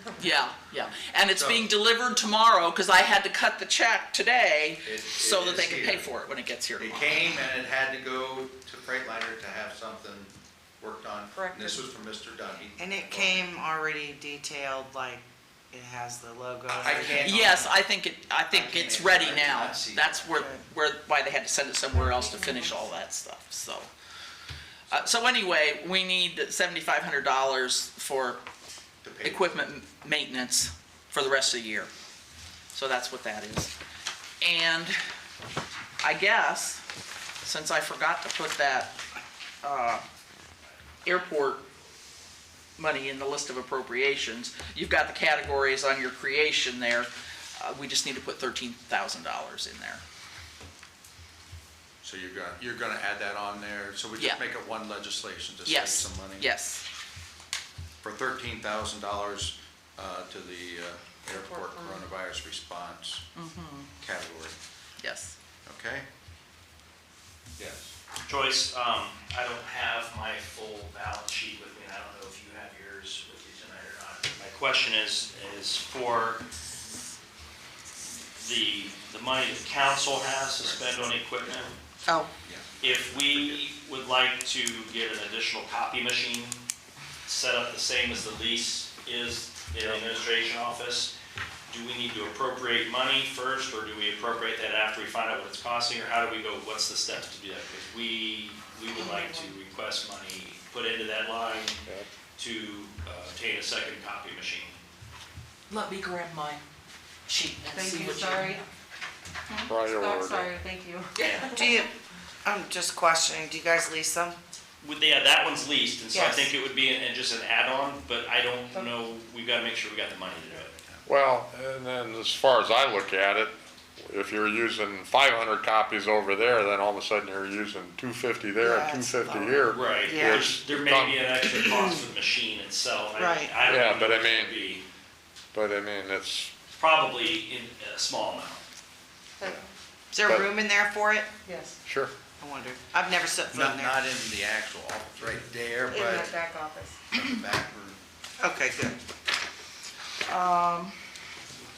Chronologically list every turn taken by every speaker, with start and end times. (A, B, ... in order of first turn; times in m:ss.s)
0:00.2-0:07.1 A
0:01.4-0:01.7 B
0:04.8-0:06.1 B
0:06.8-0:13.5 B
0:11.3-0:11.8 C
0:12.8-0:17.6 D
0:16.7-0:17.8 B
0:17.2-0:23.9 A
0:18.5-0:20.4 B
0:20.3-0:20.6 D
0:21.9-0:22.8 C
0:24.9-0:28.4 A
0:29.0-0:29.5 B
0:29.2-0:31.9 A
0:32.7-0:33.7 A
0:34.4-0:35.0 A
0:36.0-0:36.8 A
0:37.4-0:39.0 A
0:39.6-0:40.0 A
0:41.0-0:41.6 A
0:42.8-0:50.0 A
0:52.0-0:56.5 B
0:55.6-0:56.8 A
0:58.0-1:03.2 B
1:01.3-1:02.1 C
1:03.3-1:03.9 A
1:04.0-1:04.6 B
1:05.0-1:05.4 A
1:05.6-1:06.1 B
1:07.6-1:07.9 B
1:08.3-1:16.4 E
1:18.4-1:21.8 E
1:22.4-1:23.5 B
1:22.8-1:26.6 E
1:27.2-1:31.1 E
1:31.7-1:41.8 E
1:39.0-1:39.5 C
1:42.4-1:44.8 E
1:45.7-1:46.6 A
1:47.3-1:48.6 A
1:47.7-1:48.6 C
1:49.6-1:50.5 F
1:49.8-1:51.8 C
1:51.2-1:51.5 A
1:51.5-1:51.9 D
1:52.4-1:54.4 D
1:54.8-2:00.7 E
1:56.1-1:56.5 D
2:00.8-2:01.0 B
2:01.0-2:11.7 F
2:08.6-2:10.5 D
2:09.7-2:14.8 E
2:11.6-2:12.0 D
2:13.2-2:13.5 D
2:13.6-2:14.6 F
2:15.5-2:16.5 F
2:16.7-2:18.6 E
2:19.4-2:19.7 C
2:20.1-2:21.3 D
2:21.4-2:21.8 C
2:21.8-2:22.1 F
2:22.4-2:24.1 D
2:23.5-2:26.4 B
2:25.9-2:27.1 C
2:27.1-2:28.0 B
2:28.4-2:29.0 D
2:30.2-2:30.9 A